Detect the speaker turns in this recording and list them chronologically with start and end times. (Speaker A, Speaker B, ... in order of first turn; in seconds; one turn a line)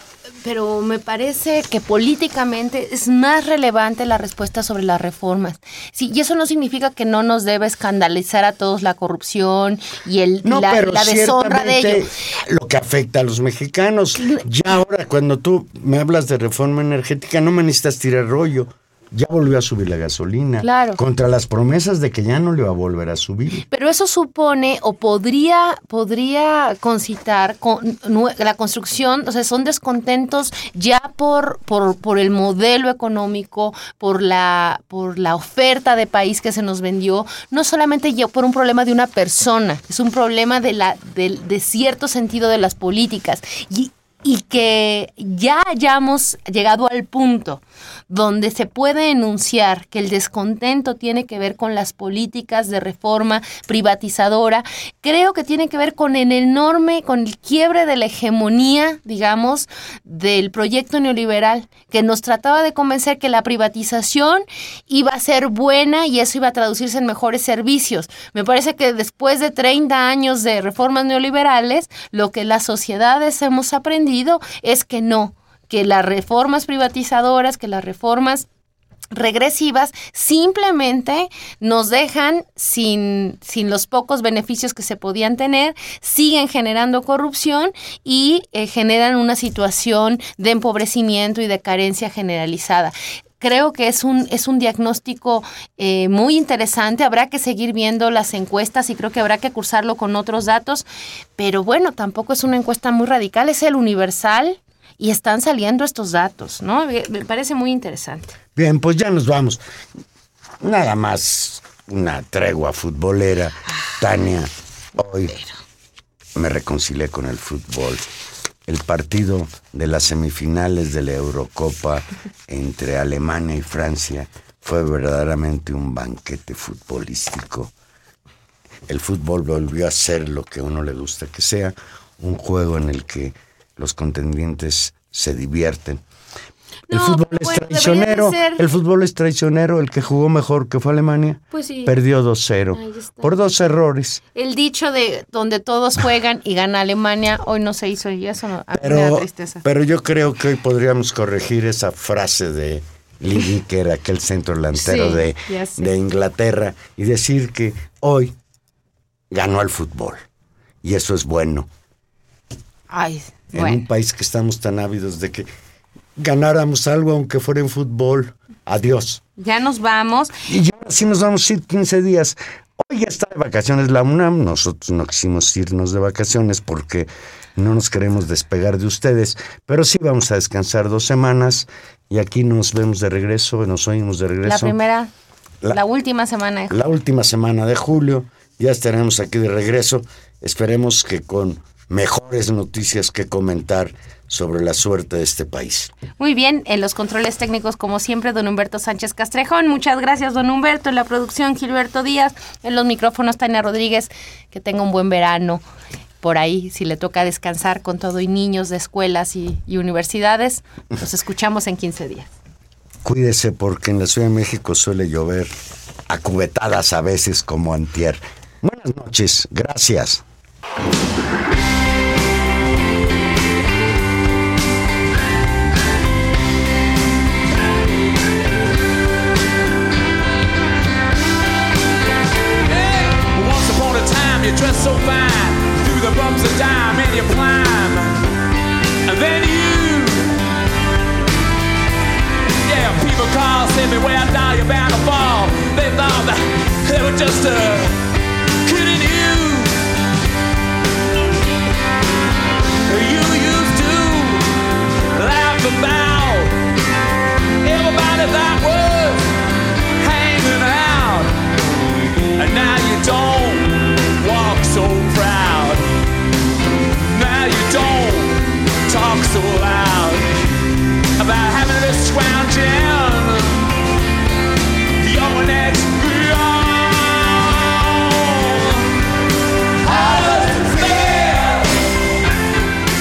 Speaker A: 0.4-12.1
Speaker B: 10.4-23.6
Speaker A: 20.6-21.0
Speaker A: 23.7-78.5
Speaker A: 79.1-100.8
Speaker A: 101.4-108.4
Speaker B: 108.6-109.6
Speaker B: 110.6-115.3
Speaker B: 116.4-118.0
Speaker B: 118.7-127.7
Speaker B: 128.9-136.0
Speaker A: 136.9-138.6
Speaker B: 136.9-144.2
Speaker A: 141.5-141.9
Speaker A: 142.7-143.3
Speaker A: 144.3-149.6
Speaker B: 148.7-158.3
Speaker A: 154.8-155.9
Speaker B: 159.3-160.2
Speaker B: 160.8-161.7
Speaker A: 162.9-163.8
Speaker B: 163.5-165.5
Speaker B: 166.2-169.2
Speaker A: 169.4-170.3
Speaker B: 170.5-184.8
Speaker A: 184.4-185.1
Speaker A: 185.7-186.8
Speaker B: 186.7-195.9
Speaker A: 196.2-205.6
Speaker A: 206.2-212.3
Speaker B: 213.1-215.5
Speaker B: 216.1-220.2
Speaker C: 232.7-238.2
Speaker C: 239.1-240.3
Speaker C: 242.7-248.0
Speaker C: 248.7-249.8
Speaker C: 252.9-254.5
Speaker C: 255.2-256.6
Speaker C: 257.6-259.3
Speaker C: 260.0-261.4
Speaker C: 262.4-265.9
Speaker C: 267.1-270.4
Speaker C: 271.2-273.6
Speaker C: 275.0-278.8
Speaker C: 279.9-281.7